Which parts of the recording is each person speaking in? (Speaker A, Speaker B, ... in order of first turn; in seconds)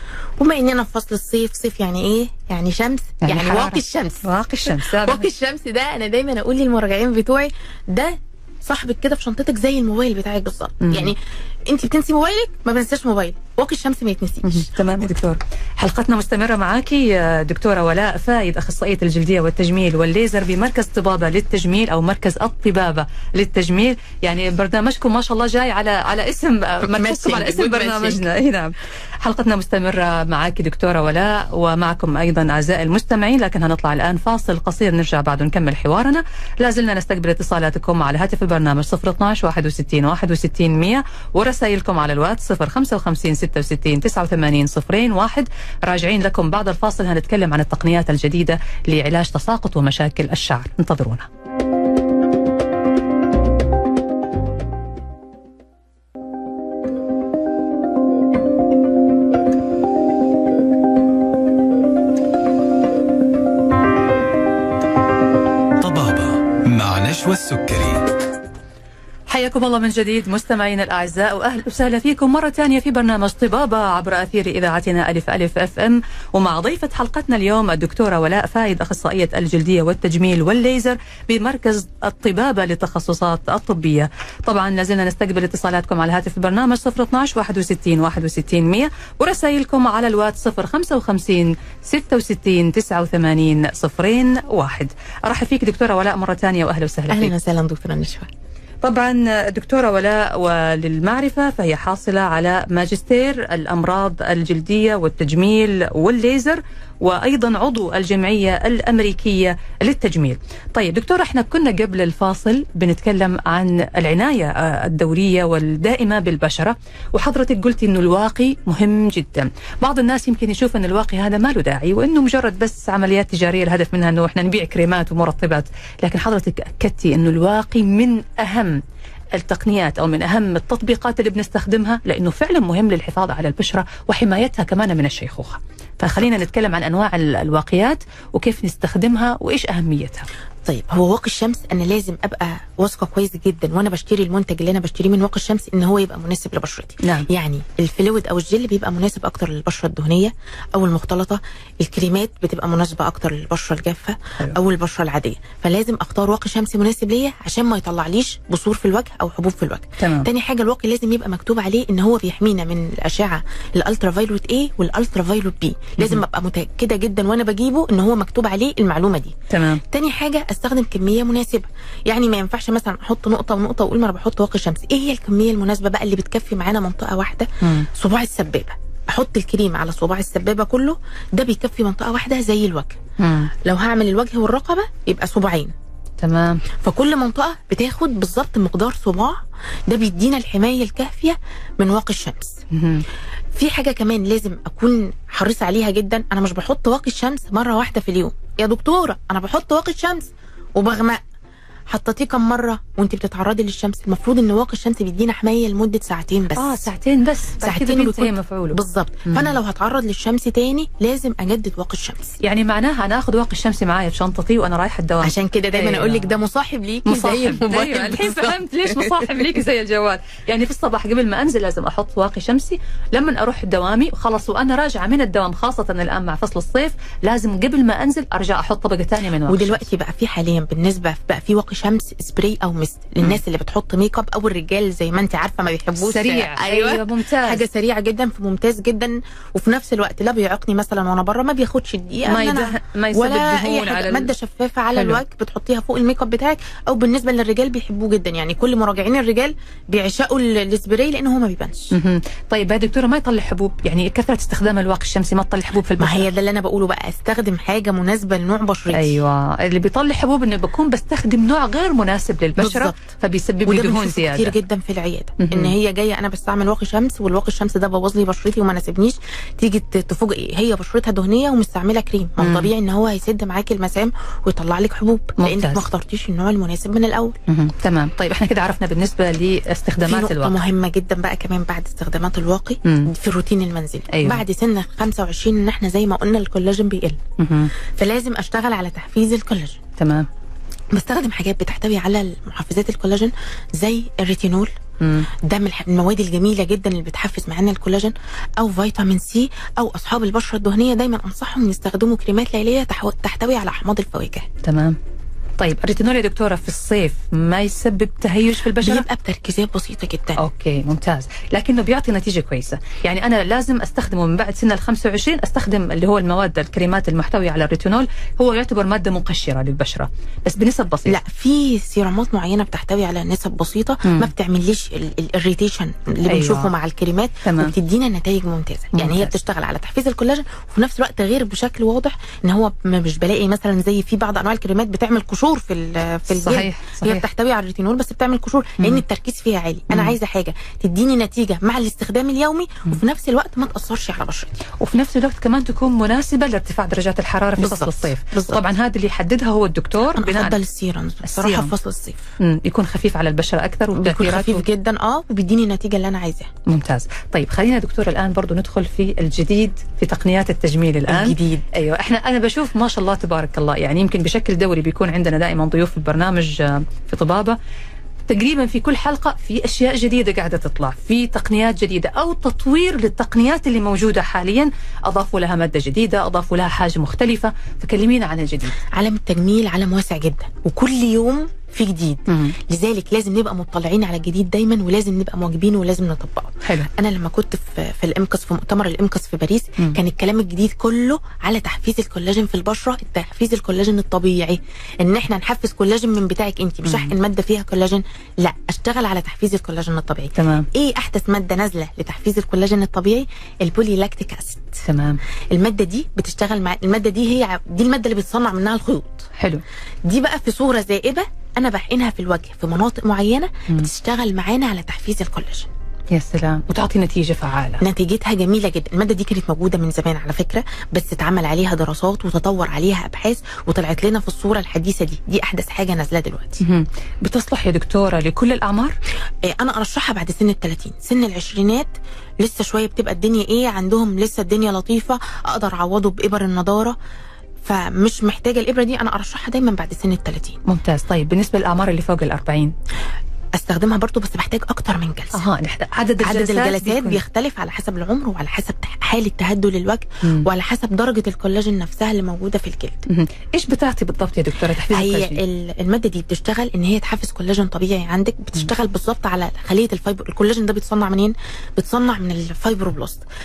Speaker A: 0.4-14.7, 26.9-28.3, 97.1-98.3, 140.7-183.0, 183.6-185.7, 186.8-192.6, 193.5-201.2, 201.9-206.9, 207.6-212.4, 215.2-219.3, 229.5-251.9, 256.0-259.2, 262.6-263.0, 263.7-277.4, 280.1-287.2, 288.0-289.8, 290.9-294.7, 295.4-304.5, 308.8-310.4, 321.1-344.6, 347.6-348.6, 350.1-352.3, 353.9-356.5, 361.1-361.6, 378.9-404.8, 405.5-409.3, 410.1-415.7, 417.8-426.6, 429.4-437.0, 437.6-440.6, 443.6-445.5, 446.2-453.1, 454.9-463.2
Speaker B: 3.2-5.3, 10.8-11.1, 14.4-51.3, 69.3-97.3, 98.8-128.8, 129.3-140.3, 147.0-147.3, 160.0-160.3, 169.5-169.8, 183.2-183.5, 186.2-186.6, 192.7-193.1, 206.6-209.6, 212.4-216.3, 217.1-229.8, 236.0-237.6, 242.3-244.3, 244.9-245.2, 251.9-256.3, 258.9-264.6, 265.4-265.7, 272.4-272.7, 275.4-275.8, 277.5-280.6, 282.8-283.1, 284.1-284.4, 287.4-287.7, 290.0-290.3, 295.0-295.3, 304.6-305.0, 305.6-309.1, 310.4-321.2, 324.1-324.3, 326.3-326.7, 327.4-327.7, 328.9-329.3, 336.3-337.2, 344.8-350.6, 351.2-351.7, 352.4-354.6, 356.7-367.6, 368.3-378.8, 382.3-382.6, 386.6-386.9, 396.9-397.1, 400.4-400.7, 404.9-405.2, 409.4-409.6, 416.1-417.8, 426.6-428.9, 440.7-442.7, 445.3-447.2, 453.1-455.4
Speaker C: 65.8-68.0